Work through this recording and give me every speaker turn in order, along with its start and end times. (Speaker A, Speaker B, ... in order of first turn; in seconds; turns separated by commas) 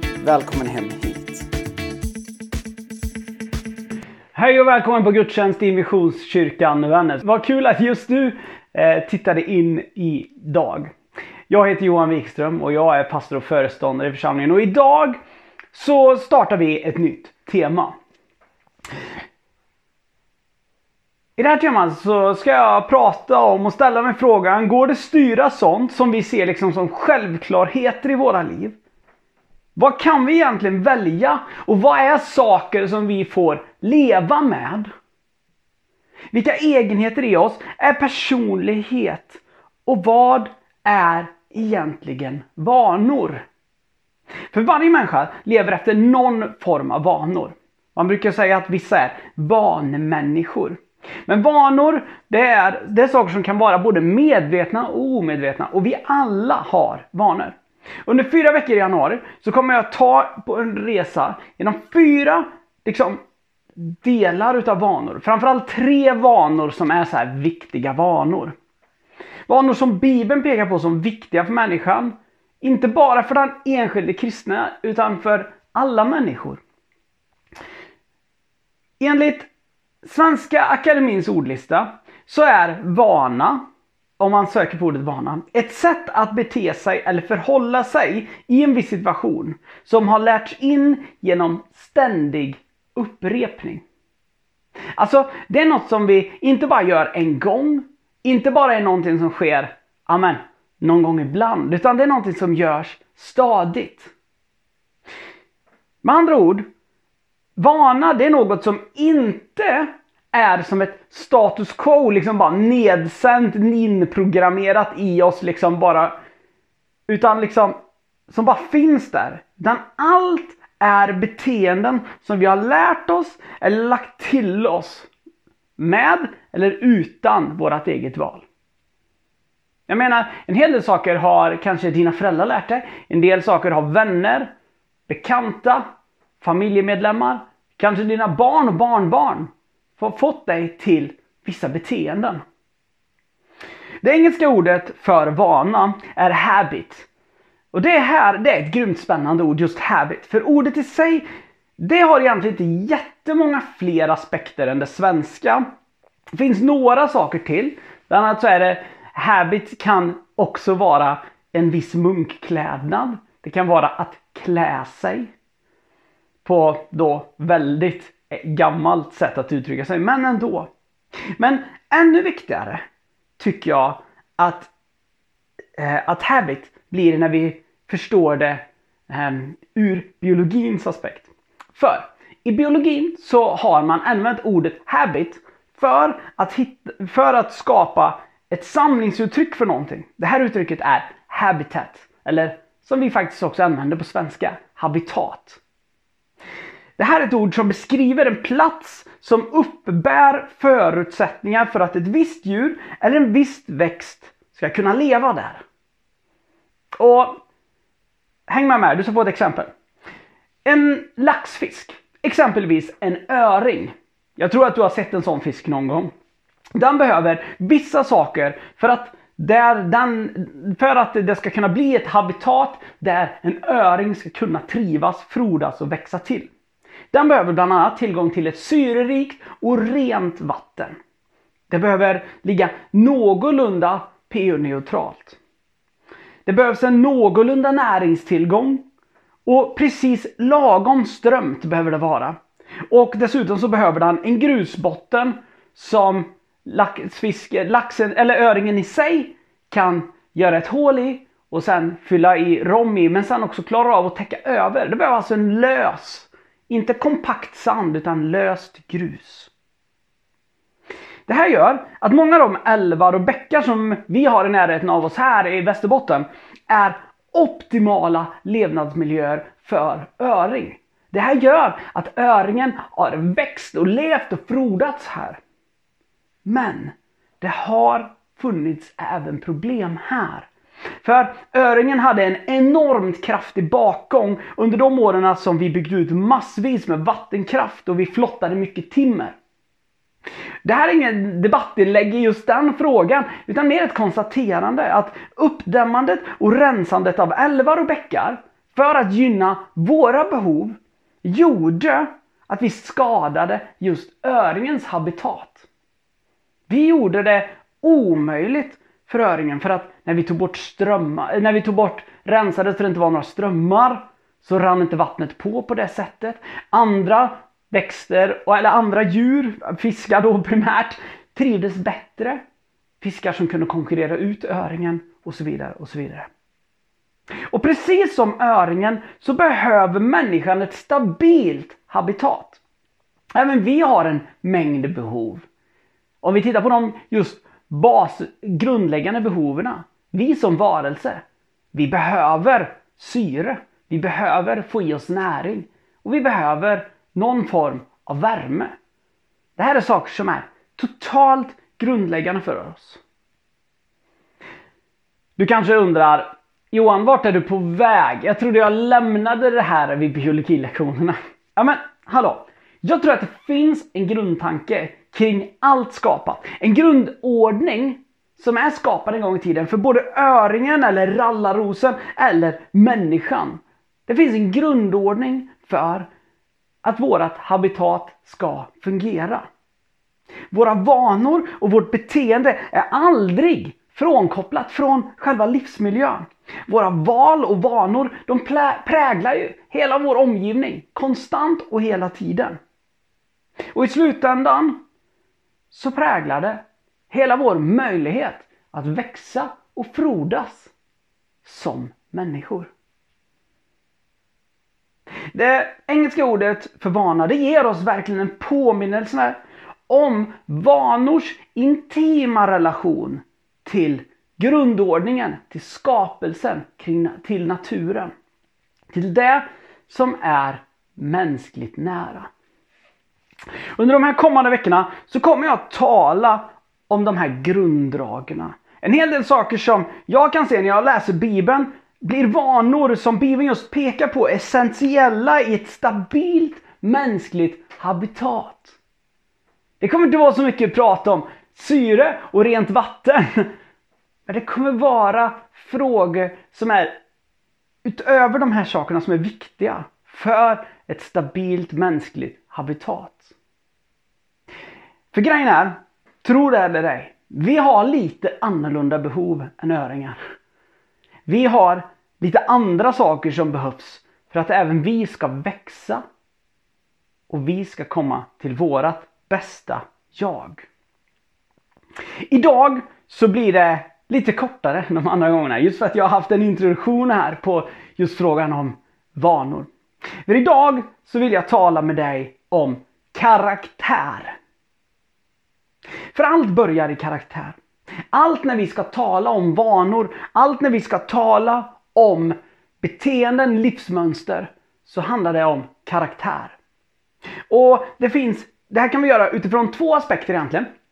Speaker A: 0.2-1.5, Speaker A: 4.3-10.9, Speaker A: 11.5-15.2, Speaker A: 15.7-17.9, Speaker A: 21.4-28.8, Speaker A: 29.8-34.9, Speaker A: 36.3-43.5, Speaker A: 44.5-63.2, Speaker A: 63.8-68.6, Speaker A: 69.5-76.6, Speaker A: 79.0-79.5, Speaker A: 80.0-83.6, Speaker A: 84.2-93.8, Speaker A: 95.0-104.1, Speaker A: 106.0-106.7, Speaker A: 107.6-116.2, Speaker A: 117.1-117.8, Speaker A: 118.3-125.1, Speaker A: 125.8-128.5, Speaker A: 129.9-134.5, Speaker A: 135.1-135.8, Speaker A: 136.4-142.4, Speaker A: 144.0-147.1, Speaker A: 147.7-151.2, Speaker A: 151.8-155.6, Speaker A: 156.4-165.3, Speaker A: 166.4-170.7, Speaker A: 171.4-172.8, Speaker A: 173.4-174.7, Speaker A: 175.8-195.6, Speaker A: 197.0-205.6, Speaker A: 207.0-207.4, Speaker A: 208.5-209.7, Speaker A: 210.7-216.1, Speaker A: 216.8-226.5, Speaker A: 227.1-231.0, Speaker A: 231.7-235.4, Speaker A: 236.5-238.8, Speaker A: 239.5-259.5, Speaker A: 261.3-275.4, Speaker A: 276.4-280.5, Speaker A: 281.0-289.4, Speaker A: 290.6-305.7, Speaker A: 306.7-322.4, Speaker A: 323.0-326.3, Speaker A: 327.5-332.6, Speaker A: 333.4-335.5, Speaker A: 336.2-348.7, Speaker A: 349.6-353.0, Speaker A: 355.4-376.1, Speaker A: 376.8-379.5, Speaker A: 380.5-392.6, Speaker A: 393.7-394.8, Speaker A: 395.7-400.7, Speaker A: 401.4-402.7, Speaker A: 405.3-418.1, Speaker A: 418.9-422.3, Speaker A: 423.8-438.8, Speaker A: 439.8-443.5, Speaker A: 444.3-447.0, Speaker A: 447.8-453.3, Speaker A: 455.1-460.2, Speaker A: 461.3-466.0, Speaker A: 467.3-470.7, Speaker A: 472.3-479.7, Speaker A: 480.3-484.4, Speaker A: 486.1-487.6, Speaker A: 488.1-496.6, Speaker A: 497.5-500.7